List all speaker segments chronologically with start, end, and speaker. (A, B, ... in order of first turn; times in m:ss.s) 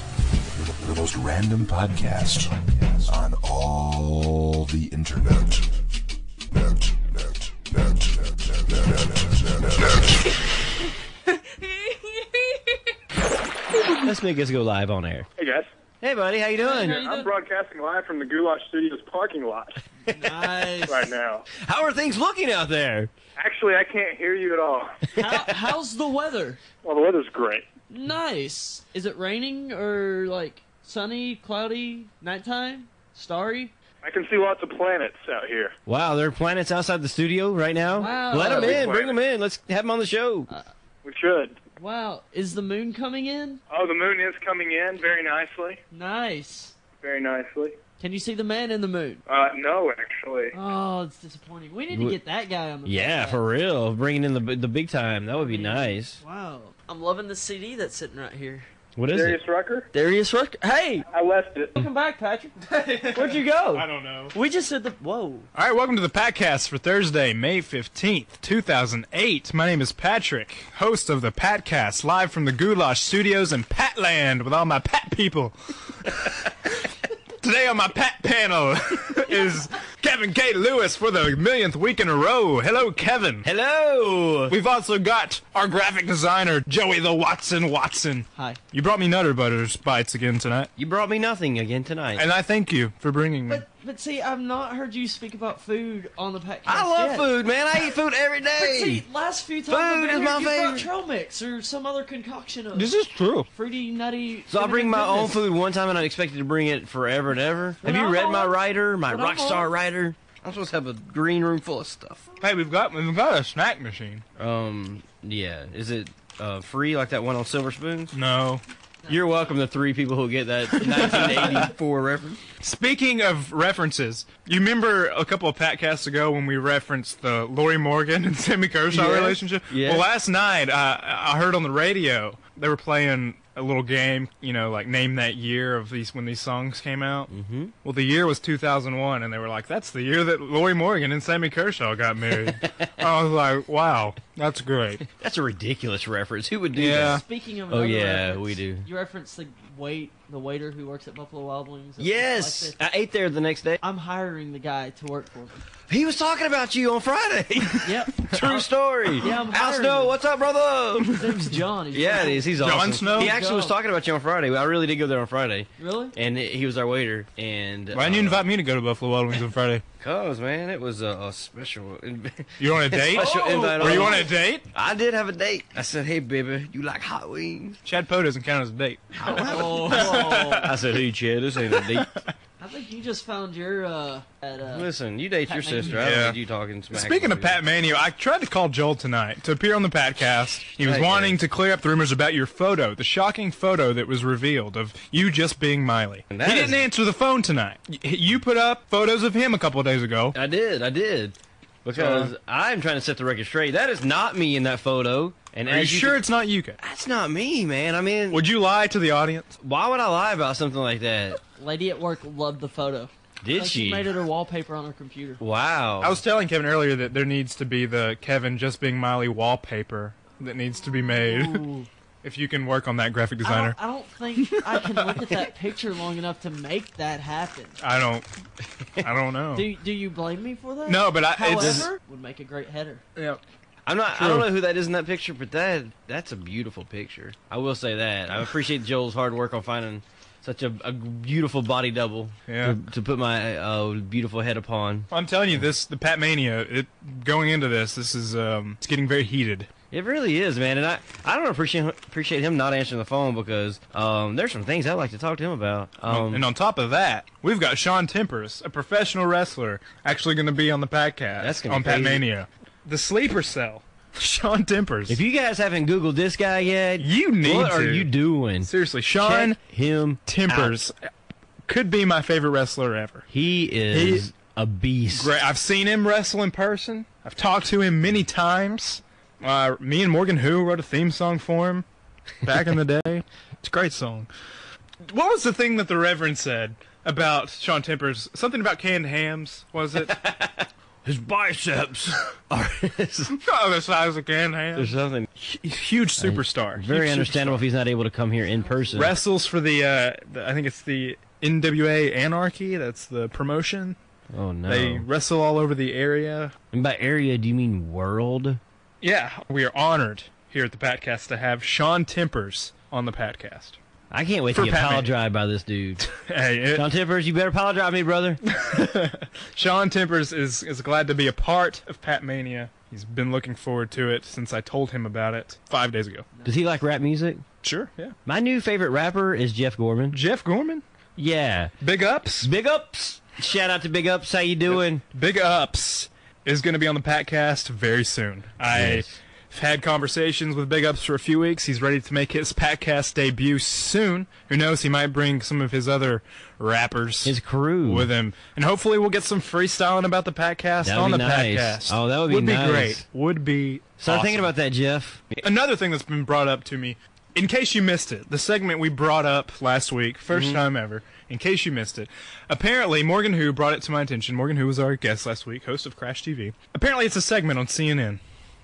0:00.5-0:05.7 A
0:06.5-0:10.0 A
0:13.9-0:15.3 B
0:16.0-0:17.0 B
0:16.6-0:17.3 C
0:17.0-0:19.6 D
0:20.1-0:21.1 C
0:20.1-0:20.8 B
0:21.5-0:23.1 B
0:23.4-0:24.8 D
0:25.1-0:25.6 B
0:25.2-0:26.6 C
0:27.9-0:33.7 C
0:34.9-0:35.4 D
0:35.9-0:40.5 B
0:38.0-0:38.9 C
0:38.6-0:39.0 E
0:41.8-0:43.6 C
0:43.7-0:44.5 D
0:45.9-0:46.8 C
0:48.0-0:49.2 C
0:50.5-0:53.4 C
0:51.9-0:52.2 B
0:52.8-0:56.2 B
0:55.3-0:58.7 C
0:59.0-0:59.4 B
0:59.4-0:59.8 D
0:59.9-1:01.1 C
1:01.8-1:05.5 C
1:02.7-1:04.4 E
1:05.5-1:16.7 E
1:17.4-1:23.5 E
1:23.4-1:24.6 B
1:24.5-1:30.7 E
1:30.8-1:32.2 B
1:32.2-1:33.6 E
1:33.5-1:37.3 C
1:36.7-1:39.0 B
1:38.6-1:42.9 C
1:39.7-1:40.9 B
1:42.7-1:43.5 E
1:43.5-1:45.5 C
1:44.5-1:52.3 B
1:47.8-1:49.7 C
1:52.4-1:54.2 E
1:54.4-1:58.1 B
1:58.1-1:58.6 E
1:59.1-2:02.4 B
2:00.8-2:01.7 E
2:01.1-2:01.7 C
2:02.6-2:17.3 E
2:08.9-2:10.0 B
2:17.3-2:17.7 B
2:17.8-2:25.1 E
2:25.2-2:28.9 B
2:26.7-2:27.2 E
2:27.0-2:32.8 C
2:32.0-2:33.8 B
2:33.8-2:35.6 C
2:35.9-2:48.5 B
2:37.8-2:40.2 C
2:41.2-2:43.8 C
2:42.6-2:43.3 E
2:45.8-2:46.2 C
2:47.9-2:49.8 E
2:50.0-2:57.8 B
2:52.6-2:54.7 E
2:53.1-2:54.3 C
2:57.8-3:00.8 E
2:59.2-3:02.2 B
2:59.3-3:00.7 C
3:01.7-3:02.3 E
3:02.6-3:04.9 C
3:04.7-3:07.6 B
3:05.4-3:06.1 C
3:05.9-3:06.4 E
3:06.9-3:20.4 E
3:10.8-3:11.4 B
3:16.3-3:16.9 B
3:20.3-3:26.2 B
3:21.9-3:22.3 E
3:25.6-3:26.8 E
3:26.8-3:28.4 B
3:28.3-3:29.6 E
3:29.6-3:31.4 B
3:31.6-3:35.4 C
3:33.4-3:34.1 B
3:35.4-3:36.2 B
3:36.0-3:41.6 E
3:41.1-3:41.9 C
3:42.2-3:43.8 E
3:43.4-3:47.8 C
3:44.4-3:45.3 E
3:47.8-3:48.3 E
3:49.0-3:49.7 E
3:49.5-3:53.0 C
3:50.9-3:51.9 E
3:51.5-3:51.9 B
3:53.9-4:05.6 B
3:54.1-3:54.5 E
4:02.5-4:02.8 E
4:05.1-4:09.7 E
4:09.9-4:16.5 B
4:16.1-4:25.2 E
4:21.4-4:22.2 B
4:25.1-4:28.7 B
4:27.0-4:29.6 E
4:29.2-4:30.8 B
4:30.3-4:30.9 E
4:31.7-4:33.3 E
4:33.3-4:35.3 B
4:33.9-4:34.3 E
4:35.1-4:41.8 E
4:42.4-4:44.3 E
4:45.1-4:50.2 E
4:50.0-4:53.4 B
4:53.3-4:57.7 E
4:54.8-4:55.3 B
4:56.2-4:59.1 B
4:58.6-4:59.2 C
4:59.0-5:04.0 E
5:04.3-5:05.1 B
5:04.7-5:06.5 E
5:06.7-5:08.6 B
5:09.0-5:13.8 E
5:14.1-5:16.1 B
5:14.5-5:15.1 E
5:16.1-5:16.9 E
5:16.7-5:18.4 B
5:18.5-5:26.3 E
5:26.3-5:26.6 C
5:26.4-5:27.4 B
5:27.6-5:28.2 E
5:28.3-5:30.2 B
5:30.1-5:30.8 E
5:31.2-5:31.8 B
5:31.8-5:32.5 E
5:32.4-5:35.0 B
5:34.7-5:54.5 E
5:38.7-5:39.2 B
5:47.2-5:48.1 B
5:50.8-5:53.0 B
5:54.0-5:55.4 B
5:55.4-6:08.2 E
6:00.3-6:00.6 B